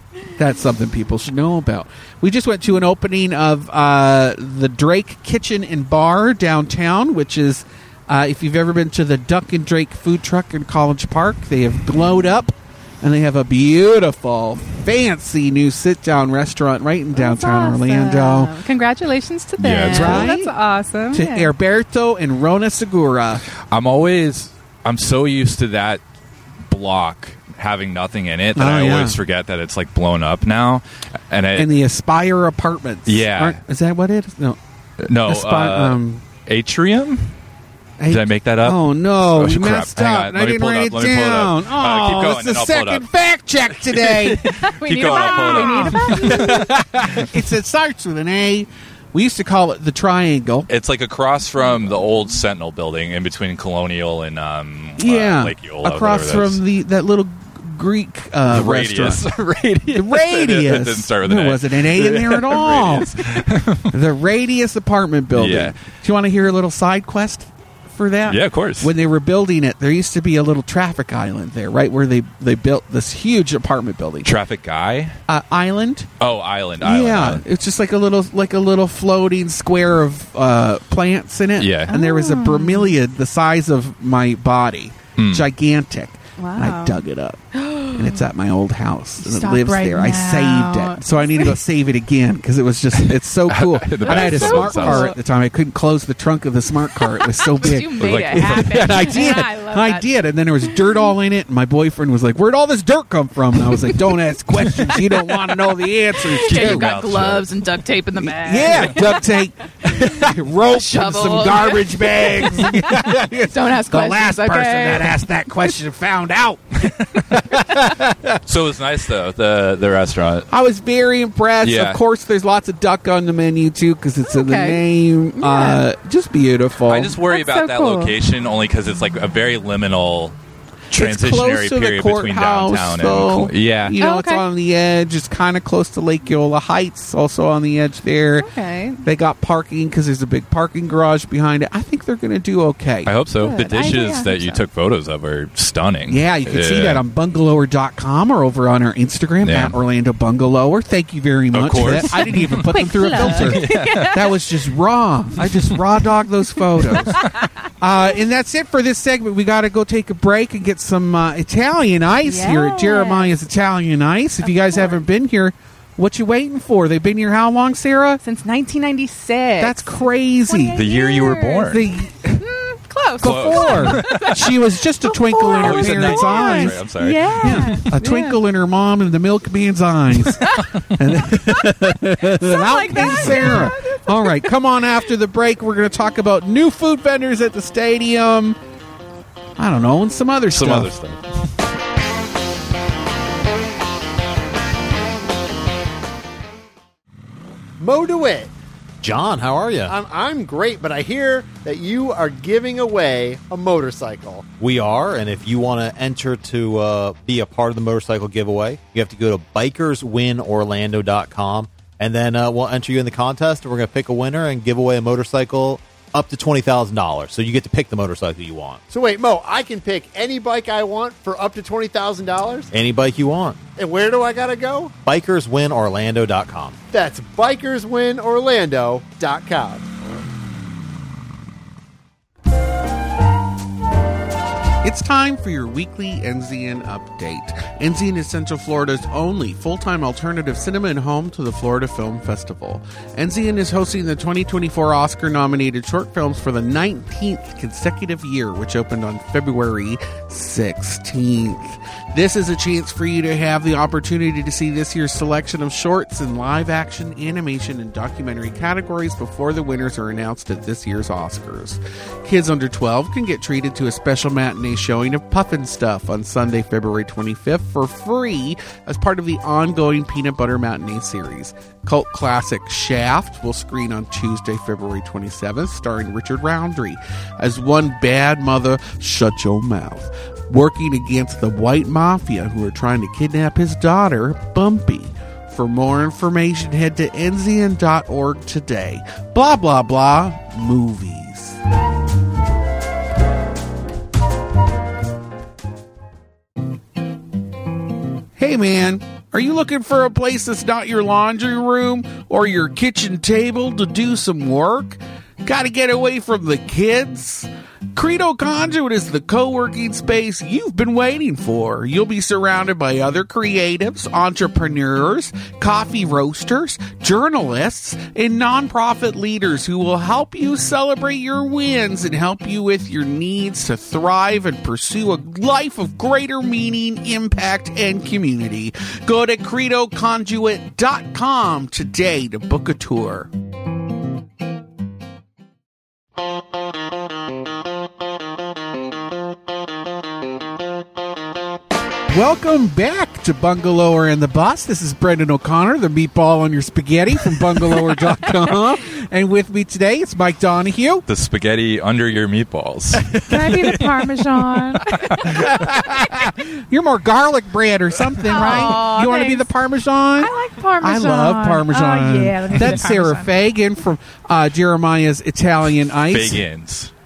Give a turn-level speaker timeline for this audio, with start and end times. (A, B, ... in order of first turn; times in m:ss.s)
0:00.4-0:18.5 A
0:17.1-0:21.5 B
0:19.6-0:20.3 C
0:19.9-0:20.5 A
0:21.1-0:23.4 A
0:23.7-0:26.0 C
0:26.6-0:31.8 C
0:28.5-0:29.2 A
0:31.6-0:34.6 A
0:33.0-0:33.6 C
0:35.0-0:37.3 C
0:35.2-0:36.2 A
0:38.0-0:50.7 A
0:38.1-0:43.1 C
0:43.7-0:47.3 C
0:44.4-0:46.7 B
0:50.7-0:56.6 C
0:55.0-0:59.2 A
0:58.5-1:03.9 C
0:59.9-1:14.3 A
1:05.3-1:05.8 C
1:08.3-1:08.9 C
1:14.2-1:15.2 C
1:15.3-1:16.1 A
1:16.2-1:17.4 C
1:16.8-1:46.9 A
1:21.6-1:21.9 C
1:21.9-1:22.9 B
1:25.2-1:25.5 C
1:26.4-1:27.0 B
1:27.5-1:28.2 B
1:29.2-1:31.6 B
1:32.9-1:35.1 C
1:34.0-1:35.2 B
1:37.1-1:40.1 B
1:37.7-1:39.2 C
1:40.6-1:41.0 B
1:46.2-1:55.2 B
1:46.4-1:47.5 C
1:48.2-1:58.4 A
1:58.4-2:00.5 C
2:00.5-2:07.2 A
2:01.6-2:02.0 C
2:04.3-2:04.8 B
2:05.4-2:05.8 B
2:06.9-2:10.4 C
2:07.2-2:08.1 B
2:10.9-2:18.5 A
2:10.9-2:14.0 C
2:14.0-2:14.4 B
2:18.4-2:19.0 B
2:19.0-2:23.1 A
2:23.0-2:27.0 C
2:23.4-2:24.6 B
2:26.1-2:37.3 A
2:29.4-2:29.7 C
2:31.5-2:34.1 C
2:31.8-2:34.6 B
2:35.4-2:35.8 C
2:36.9-2:37.3 C
2:37.1-2:37.4 B
2:37.8-2:48.2 A
2:42.2-2:43.3 B
2:44.4-2:45.0 B
2:48.2-2:58.4 B
2:49.6-2:50.8 A
2:50.7-2:51.9 C
2:51.7-2:52.4 A
2:53.2-2:54.5 C
2:53.2-2:56.8 A
2:55.6-2:57.8 C
2:57.4-3:08.6 A
3:00.4-3:00.7 B
3:01.3-3:04.6 B
3:03.0-3:03.6 C
3:09.6-3:10.9 A
3:10.5-3:11.2 C
3:17.8-3:18.5 D
3:19.0-3:19.9 E
3:19.9-3:24.5 D
3:24.6-3:38.8 E
3:38.9-3:42.7 D
3:42.7-3:43.7 E
3:43.8-3:45.0 D
3:45.0-3:46.8 E
3:46.9-3:49.9 D
3:54.8-4:51.6 A
4:58.4-5:33.3 A
5:42.1-5:51.0 A
5:51.1-5:53.6 C
5:52.9-5:53.8 A
5:53.2-5:55.7 B
5:55.2-6:06.4 A
5:55.2-5:55.5 C
5:58.2-5:59.5 B
6:00.2-6:03.3 B
6:06.1-6:06.9 C